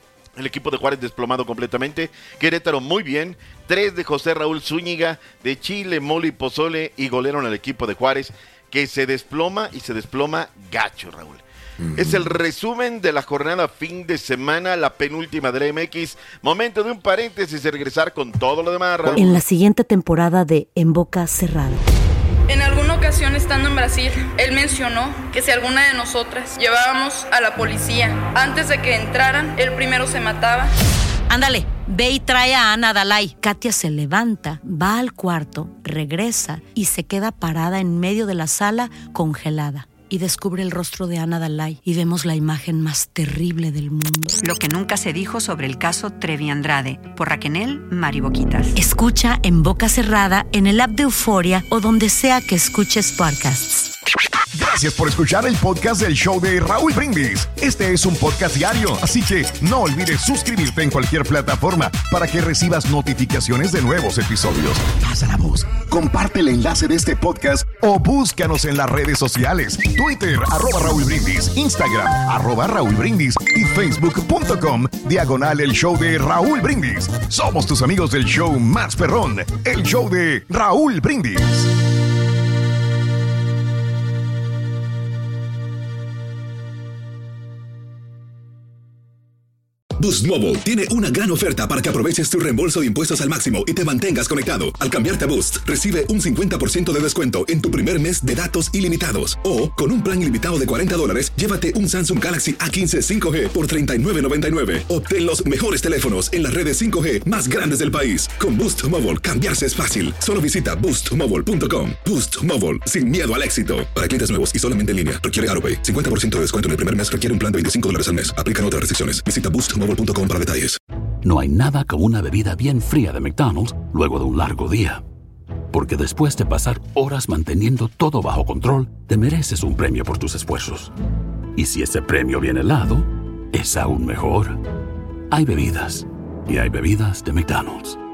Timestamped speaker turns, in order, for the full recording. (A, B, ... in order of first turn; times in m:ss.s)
0:00.4-0:11.4 A
0:11.8-0:12.4 B
0:12.0-0:19.4 A
0:19.1-0:21.8 C
0:22.5-0:30.7 D
0:31.3-0:44.3 C
0:44.4-0:48.7 E
0:48.7-0:53.8 C
0:54.5-1:21.7 B
1:30.0-2:00.8 F
2:01.2-2:05.0 G
2:05.7-2:10.9 G
2:11.6-2:14.6 G
2:15.3-2:18.0 G